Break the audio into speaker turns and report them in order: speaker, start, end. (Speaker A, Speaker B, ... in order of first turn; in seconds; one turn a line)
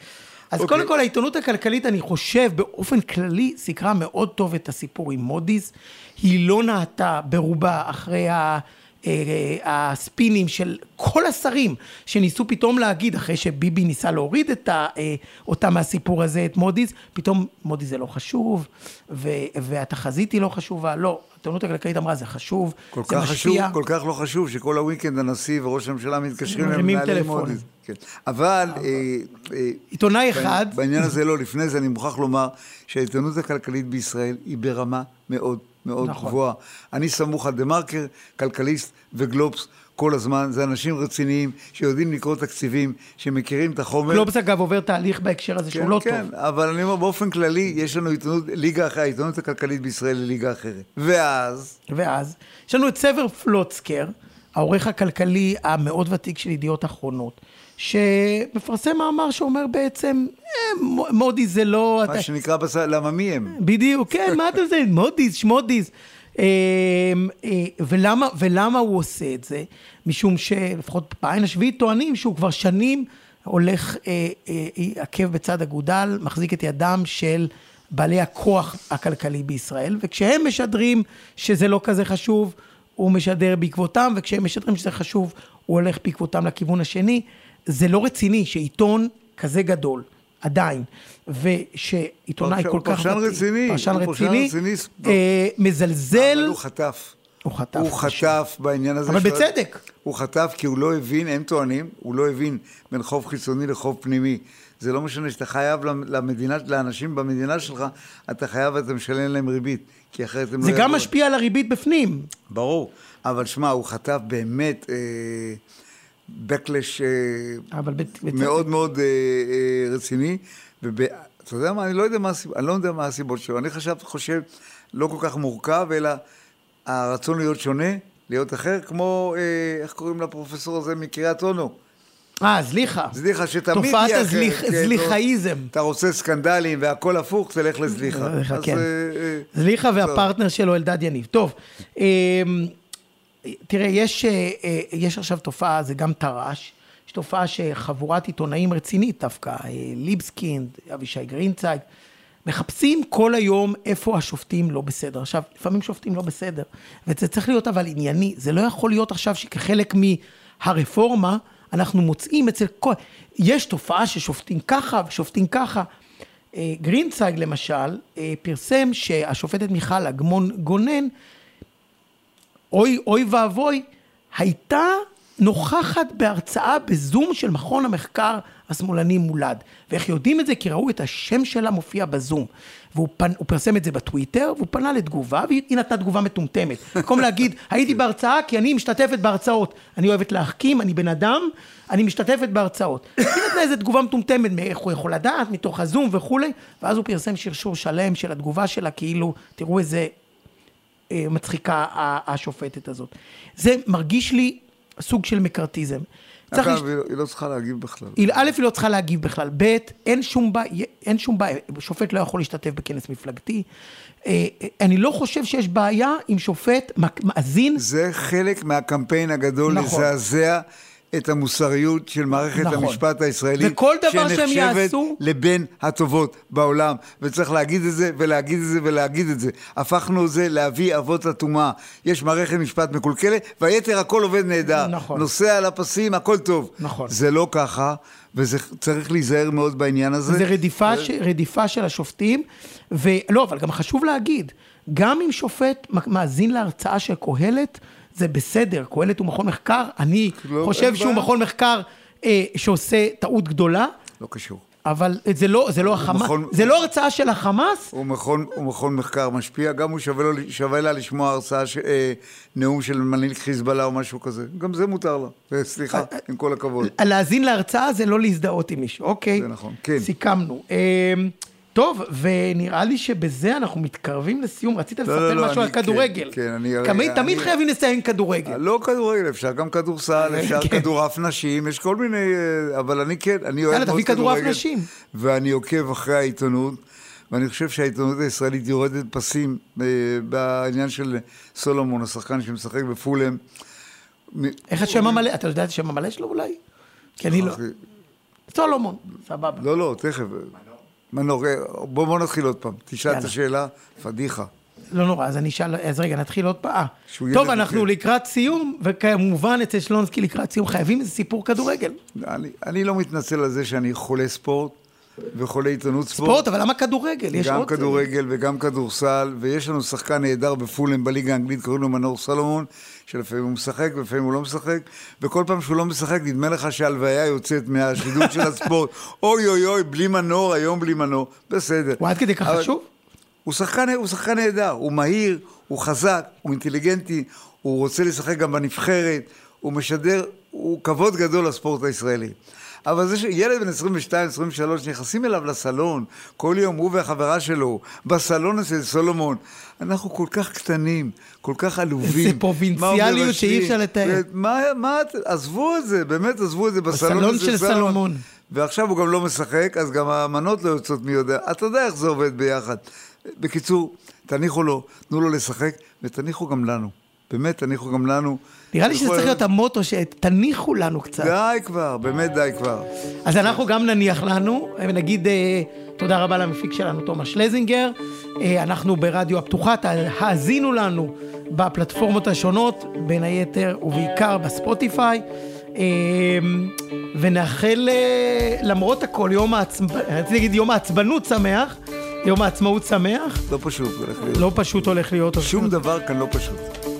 Speaker A: 0.5-23.8
Speaker B: 0.6-0.9
Speaker B: 22.9-44.3
Speaker A: 26.5-27.6
Speaker A: 29.9-31.0
Speaker A: 36.0-36.4
Speaker A: 44.1-46.3
Speaker B: 45.7-51.8
Speaker A: 51.9-62.3
Speaker B: 62.0-63.6
Speaker A: 63.5-96.6
Speaker B: 64.2-64.5
Speaker B: 92.4-95.2
Speaker B: 96.1-97.1
Speaker A: 97.4-98.4
Speaker B: 97.7-99.5
Speaker A: 99.1-99.8
Speaker B: 100.0-111.1
Speaker A: 110.6-112.3
Speaker B: 112.5-115.6
Speaker B: 116.3-117.7
Speaker A: 117.7-118.7
Speaker B: 118.3-126.2
Speaker B: 126.9-131.8
Speaker A: 132.4-133.2
Speaker B: 133.1-140.3
Speaker A: 133.7-135.7
Speaker A: 137.9-138.9
Speaker A: 139.5-142.7
Speaker A: 143.4-151.8
Speaker A: 152.4-165.9
Speaker A: 166.5-171.1
Speaker A: 172.7-200.1
Speaker A: 201.1-206.8
Speaker B: 206.5-208.5
Speaker A: 208.2-213.6
Speaker A: 214.2-217.8
Speaker B: 217.8-241.1
Speaker A: 219.7-220.1
Speaker A: 222.5-223.0
Speaker A: 223.6-225.2
Speaker A: 234.7-235.3
Speaker A: 236.8-237.1
Speaker A: 240.3-253.9
Speaker B: 250.4-251.3
Speaker B: 254.2-254.6
Speaker A: 254.8-257.9
Speaker B: 255.8-256.8
Speaker B: 257.9-266.9
Speaker A: 265.9-266.2
Speaker A: 266.8-269.5
Speaker B: 269.4-270.1
Speaker A: 270.0-278.6
Speaker B: 275.1-277.5
Speaker B: 278.4-293.4
Speaker A: 280.2-280.9
Speaker A: 283.7-284.9
Speaker B: 294.3-295.2
Speaker A: 294.7-296.6
Speaker A: 297.2-297.6
Speaker B: 297.3-297.8
Speaker A: 298.5-299.6
Speaker B: 299.5-300.6
Speaker B: 301.1-304.5
Speaker A: 303.1-303.3
Speaker A: 304.9-312.0
Speaker B: 307.1-307.9
Speaker B: 312.1-314.8
Speaker B: 315.3-316.4
Speaker A: 316.1-318.1
Speaker B: 317.3-332.7
Speaker A: 332.0-332.9
Speaker B: 333.4-369.4
Speaker A: 352.0-354.2
Speaker A: 356.9-358.2
Speaker A: 368.7-371.3
Speaker B: 371.2-373.6
Speaker A: 373.2-385.2
Speaker A: 385.8-393.4
Speaker B: 393.5-396.7
Speaker A: 394.3-395.7